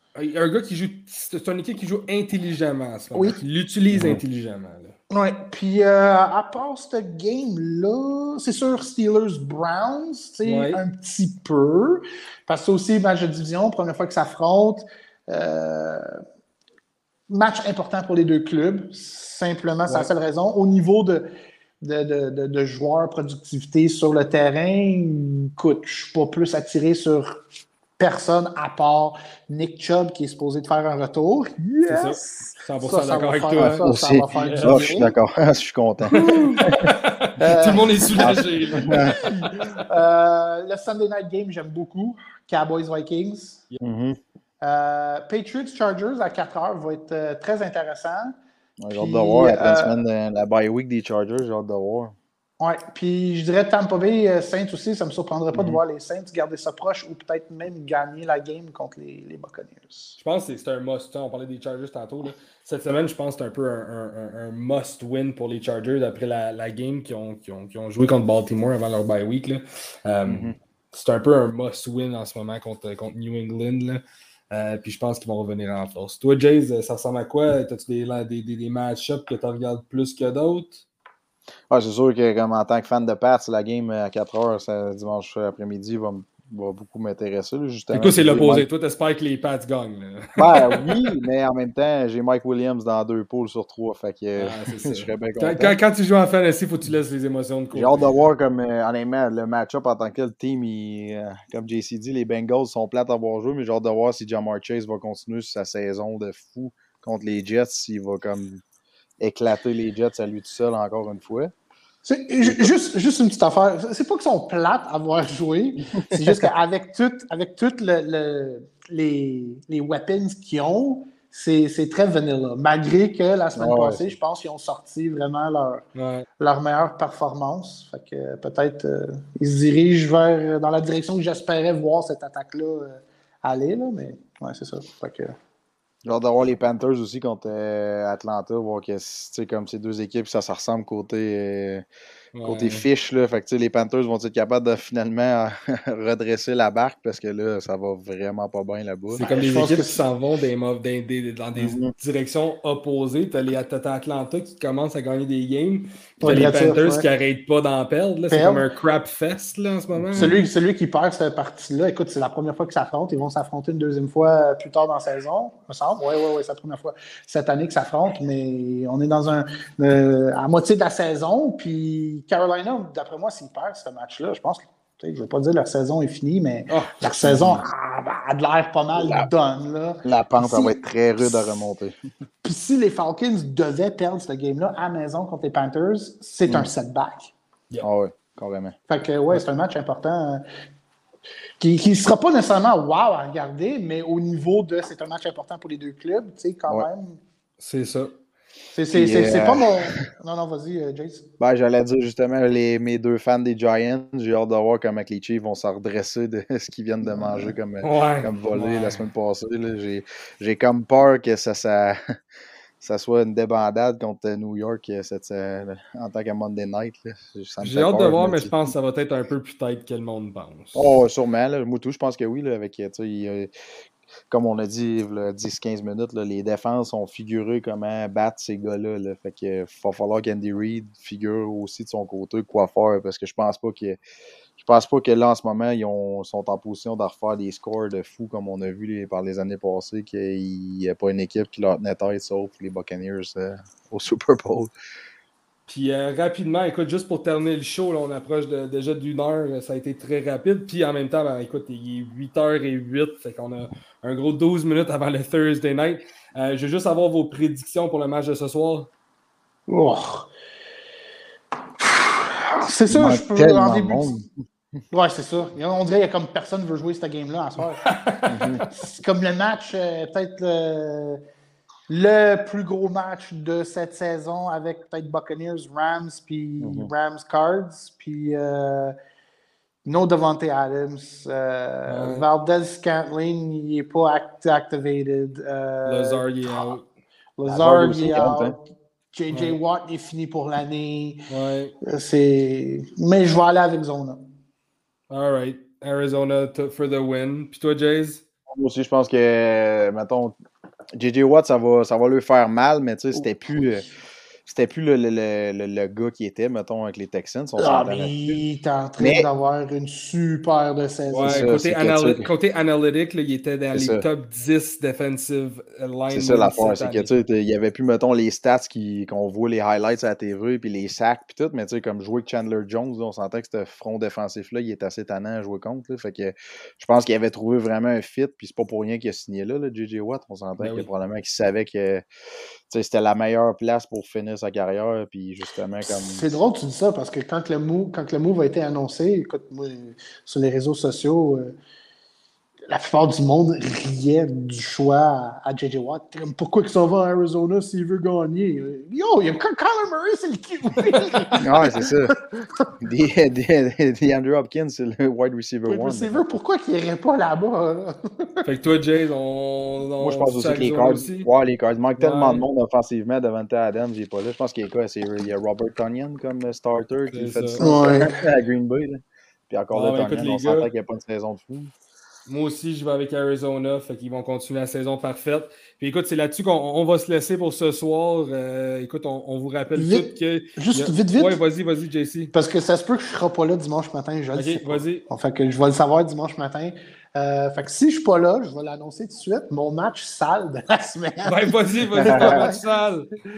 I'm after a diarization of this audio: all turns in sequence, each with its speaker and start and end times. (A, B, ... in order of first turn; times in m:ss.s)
0:00.1-0:05.0 A
0:03.1-0:03.4 B
0:03.9-0:04.2 C
0:05.1-0:16.2 B
0:10.4-0:10.8 A
0:17.3-0:21.3 B
0:21.8-0:27.4 B
0:28.0-0:35.1 B
0:31.8-0:34.8 A
0:33.6-0:36.8 C
0:36.1-0:36.6 B
0:36.1-0:39.6 A
0:37.4-0:43.6 B
0:38.1-0:39.2 C
0:43.8-0:44.2 C
0:44.6-0:48.3 B
0:48.8-0:52.2 C
0:48.9-0:50.0 B
0:52.6-1:00.2 B
0:55.5-0:55.8 C
1:00.2-1:20.8 A
1:10.2-1:10.6 C
1:21.7-1:28.6 C
1:27.9-1:31.0 A
1:30.4-1:35.8 C
1:34.4-1:38.0 A
1:37.7-1:48.6 C
1:49.2-1:51.5 C
1:52.0-2:05.8 B
1:52.4-1:52.7 C
1:56.0-1:56.5 C
2:03.5-2:04.1 C
2:06.0-2:06.3 A
2:06.4-2:15.4 B
2:16.0-2:21.8 C
2:22.3-2:22.8 A
2:22.4-2:29.3 C
2:29.1-2:40.4 A
2:29.2-2:30.0 B
2:31.6-2:31.9 C
2:36.2-2:37.0 B
2:38.3-2:38.7 B
2:39.9-2:40.4 C
2:40.2-3:01.6 B
2:56.7-2:57.6 A
2:59.0-2:59.3 C
3:00.0-3:01.9 C
3:02.4-3:07.3 B
3:07.8-3:08.7 C
3:08.9-3:10.4 B
3:11.6-3:17.2 B
3:17.6-3:18.1 A
3:18.7-3:21.3 B
3:18.9-3:20.0 C
3:21.4-3:32.0 C
3:27.0-3:27.5 B
3:27.8-3:29.0 A
3:32.8-3:38.5 C
3:37.6-3:40.8 A
3:40.7-3:43.5 C
3:44.3-3:54.0 C
3:54.6-4:04.7 C
4:05.7-4:18.9 A
4:19.7-4:20.3 B
4:21.8-4:24.1 B
4:22.9-4:24.3 C
4:24.9-4:27.9 B
4:27.8-4:28.6 A
4:28.3-4:28.6 C
4:28.6-4:31.2 B
4:31.9-4:38.9 B
4:36.6-4:36.9 C
4:39.8-4:46.7 B
4:41.9-4:42.2 A
4:45.8-4:46.8 A
4:47.4-4:48.6 B
4:47.4-4:48.6 C
4:49.1-4:51.3 B
4:49.3-4:49.6 A
4:51.3-4:51.7 A
4:51.8-4:54.2 B
4:55.1-4:58.2 A
4:58.5-5:00.4 C
5:00.9-5:03.9 C
5:04.4-5:08.4 C
5:07.6-5:11.5 B
5:09.0-5:09.3 C
5:11.1-5:17.2 A
5:11.2-5:12.3 C
5:13.7-5:14.0 C
5:16.1-5:32.0 C
5:30.6-5:30.9 A
5:32.7-5:36.2 C
5:35.8-5:41.5 B
5:42.7-5:52.2 B
5:51.4-5:52.1 C
5:52.8-5:56.2 C
5:55.7-5:58.4 B
5:58.4-6:01.3 A
6:00.0-6:11.7 C
6:02.0-6:02.4 A
6:07.1-6:07.7 A
6:07.6-6:08.2 B
6:09.7-6:10.7 A
6:12.2-6:22.3 A
6:19.7-6:21.4 B
6:22.3-6:32.6 B
6:24.3-6:25.0 A
6:31.2-6:33.1 A
6:32.0-6:32.5 C